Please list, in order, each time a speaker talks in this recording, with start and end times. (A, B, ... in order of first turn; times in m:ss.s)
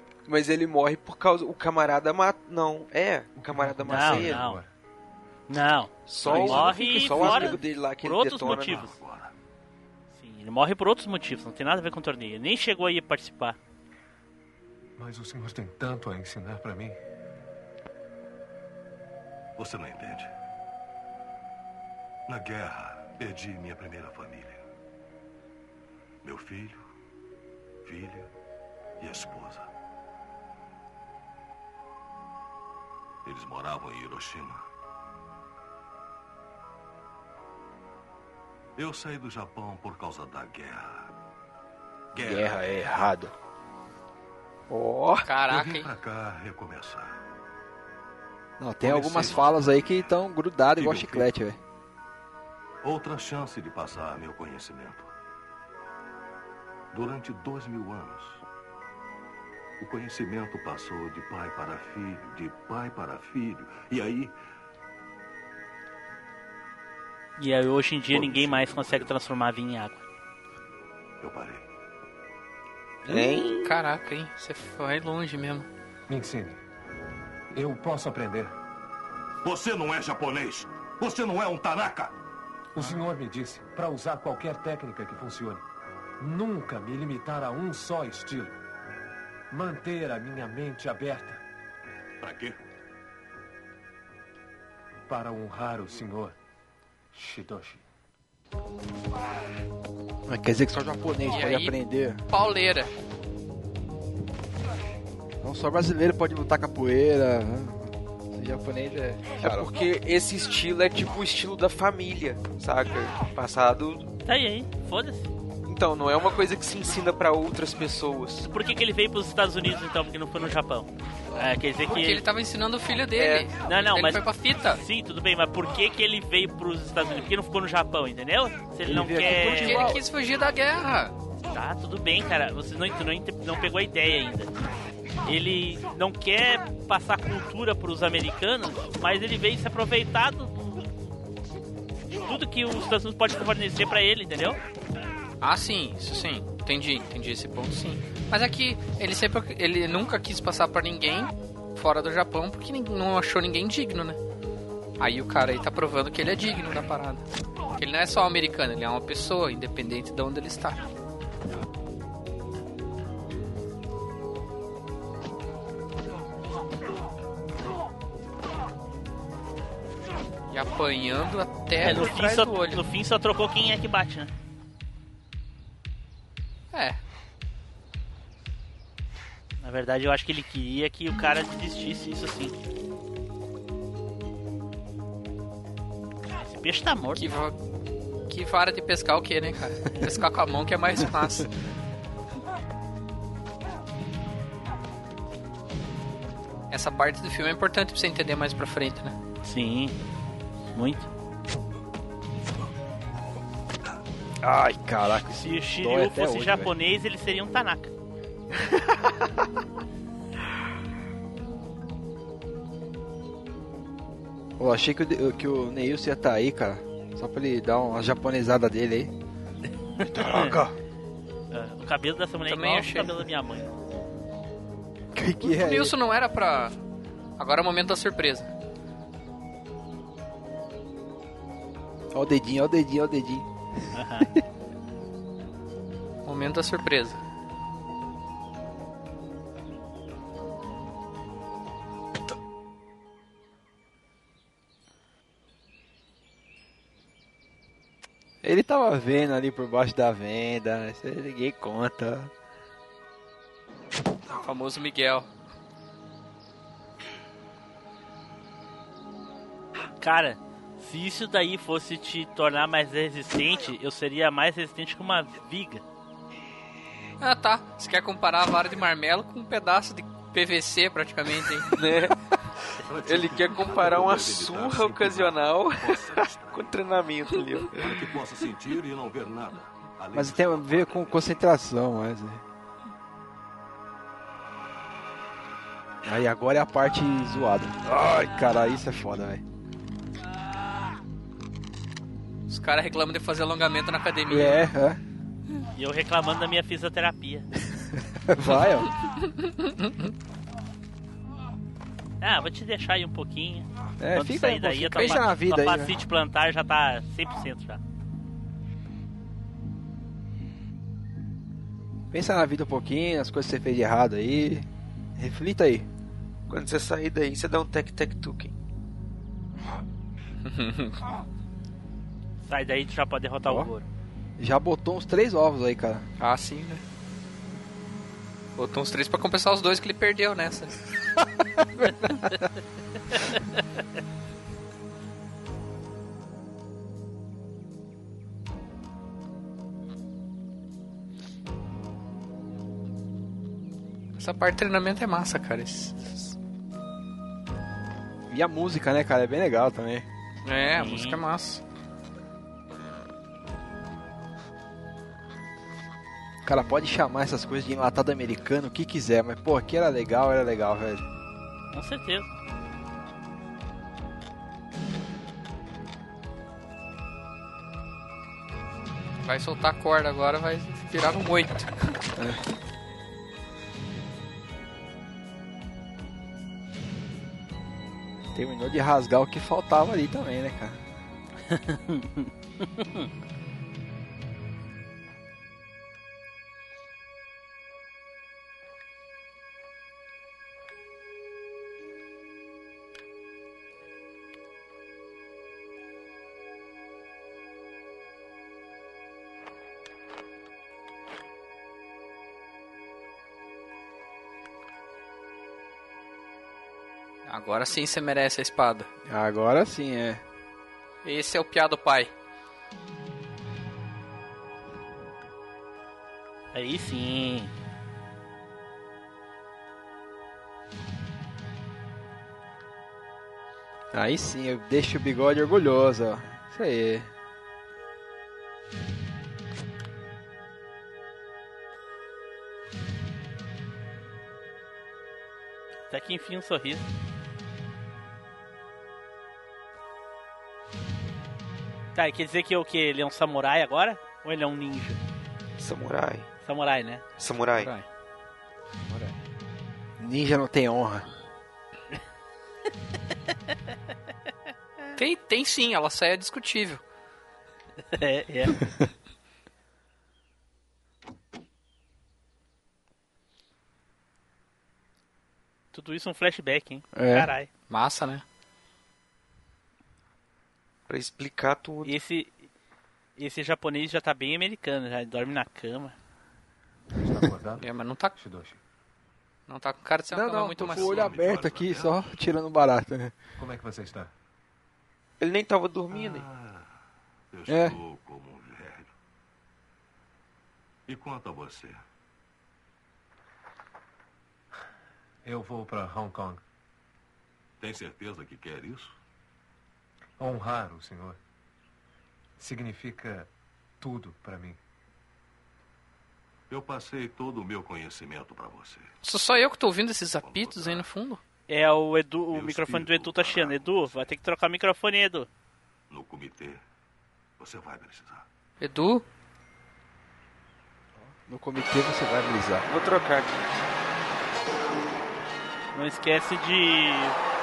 0:00.3-0:04.4 A
0:03.4-0:04.7 B
0:03.9-0:04.6 C
0:05.5-0:08.9 C
0:06.1-0:08.9 A
0:06.3-0:06.7 D
0:08.7-0:09.3 E
0:10.1-0:13.6 C
0:15.0-0:17.0 B
0:19.6-0:20.3 E
0:22.3-0:24.6 E
0:26.2-0:26.8 E
0:27.8-0:28.3 E
0:29.0-0:29.7 E
0:33.2-0:34.7 E
0:38.8-0:41.1 E
0:42.1-0:42.7 E
0:42.2-0:43.3 D
0:44.7-0:45.2 A
0:45.2-0:45.9 F
0:45.5-0:47.2 E
0:48.6-0:51.6 D
0:48.8-0:50.2 E
0:50.8-0:51.3 E
0:52.8-0:55.1 E
0:56.9-0:58.4 E
0:59.8-1:04.4 E
1:07.4-1:10.0 C
1:08.1-1:09.2 E
1:11.2-1:11.6 E
1:13.1-1:13.7 A
1:13.2-1:15.7 F
1:16.1-1:16.6 B
1:17.5-1:18.5 B
1:19.4-1:22.1 E
1:22.8-1:25.6 B
1:26.2-1:28.6 B
1:29.5-1:31.4 B
1:32.2-1:32.6 E
1:35.1-1:36.4 B
1:37.1-1:37.8 B
1:40.3-1:42.2 D
1:41.3-1:41.8 F
1:42.3-1:42.9 F
1:45.4-1:49.8 D
1:49.4-1:54.1 A
1:54.3-1:55.3 C
1:55.7-1:58.5 A
1:58.5-2:02.2 C
2:01.8-2:04.8 F
2:03.1-2:03.5 A
2:03.6-2:09.9 C
2:08.9-2:10.0 D
2:09.3-2:11.1 F
2:11.5-2:14.5 C
2:15.2-2:20.8 C
2:22.2-2:24.6 C
2:25.4-2:34.2 F
2:35.0-2:40.8 F
2:50.5-2:52.8 F
2:51.8-2:54.3 C
2:56.7-2:57.0 F
2:59.6-3:02.6 C
3:06.4-3:07.3 C
3:07.2-3:07.6 F
3:08.3-3:11.5 F
3:16.7-3:19.2 F
3:19.4-3:20.0 C
3:20.7-3:21.1 C
3:24.4-3:26.7 D
3:25.2-3:27.9 C
3:34.6-3:39.1 D
3:40.0-3:40.6 C
3:40.0-3:40.8 D
3:41.5-3:43.7 C
3:42.5-3:43.2 F
3:45.1-3:45.9 D
3:45.4-3:46.8 F
3:47.4-3:48.5 F
3:52.1-3:53.5 D
3:53.9-3:54.3 C
3:56.2-3:57.2 F
4:08.4-4:12.3 D
4:14.4-4:15.3 F
4:20.0-4:25.8 C
4:27.2-4:31.7 F
4:31.7-4:32.2 A
4:32.9-4:36.6 E
4:33.0-4:37.9 A
4:37.8-4:41.2 E
4:40.1-4:42.4 D
4:46.0-4:49.4 D
4:52.5-4:54.7 F
4:54.3-4:55.0 D
4:55.8-4:57.5 C
4:58.0-4:58.9 D
4:58.7-5:00.1 F
5:02.2-5:07.8 C
5:04.0-5:06.0 D
5:12.1-5:15.9 D
5:16.5-5:18.5 A
5:20.4-5:21.0 F
5:22.4-5:23.9 C
5:24.4-5:26.1 D
5:26.2-5:26.8 F
5:28.6-5:30.8 F
5:44.2-5:46.3 F
5:48.3-5:50.1 D
5:50.4-5:51.6 F
5:50.8-5:51.2 C
5:56.4-6:01.0 D
6:01.7-6:02.3 C
6:09.2-6:11.9 F
6:18.3-6:20.8 D
6:21.5-6:23.1 C
6:47.3-6:48.9 F
6:49.0-6:50.2 D
6:51.0-6:52.1 F
6:56.5-6:57.5 C
7:03.9-7:07.1 D
7:15.9-7:16.9 C
7:22.0-7:25.0 C
7:25.6-7:26.3 A
7:26.4-7:27.0 C
7:27.2-7:27.7 A
7:27.6-7:27.9 F
7:30.0-7:31.1 D
7:35.0-7:36.8 F
7:37.9-7:38.6 C
7:45.7-7:47.5 C
7:46.9-7:47.3 D
7:47.7-7:48.2 F
7:50.9-7:51.9 A
7:51.8-7:52.5 C
7:53.2-7:56.0 C
7:57.0-7:58.6 B
7:57.6-7:58.1 F
7:59.5-8:01.1 F
8:00.1-8:03.2 D
8:00.6-8:02.0 E
8:03.4-8:04.1 B
8:05.2-8:06.3 A
8:05.9-8:06.7 E
8:07.3-8:08.9 E
8:07.5-8:07.8 D
8:10.9-8:11.8 E
8:15.2-8:16.4 B
8:17.6-8:18.9 E
8:20.2-8:21.2 B
8:22.4-8:23.3 B
8:23.8-8:24.6 B
8:26.5-8:28.9 E
8:29.0-8:31.2 F
8:30.2-8:30.9 E
8:31.5-8:35.3 C
8:32.3-8:34.1 E
8:35.9-8:36.6 E
8:37.4-8:38.3 E
8:38.6-8:39.0 F
8:41.3-8:42.7 D
8:42.7-8:43.3 A
8:45.7-8:47.2 C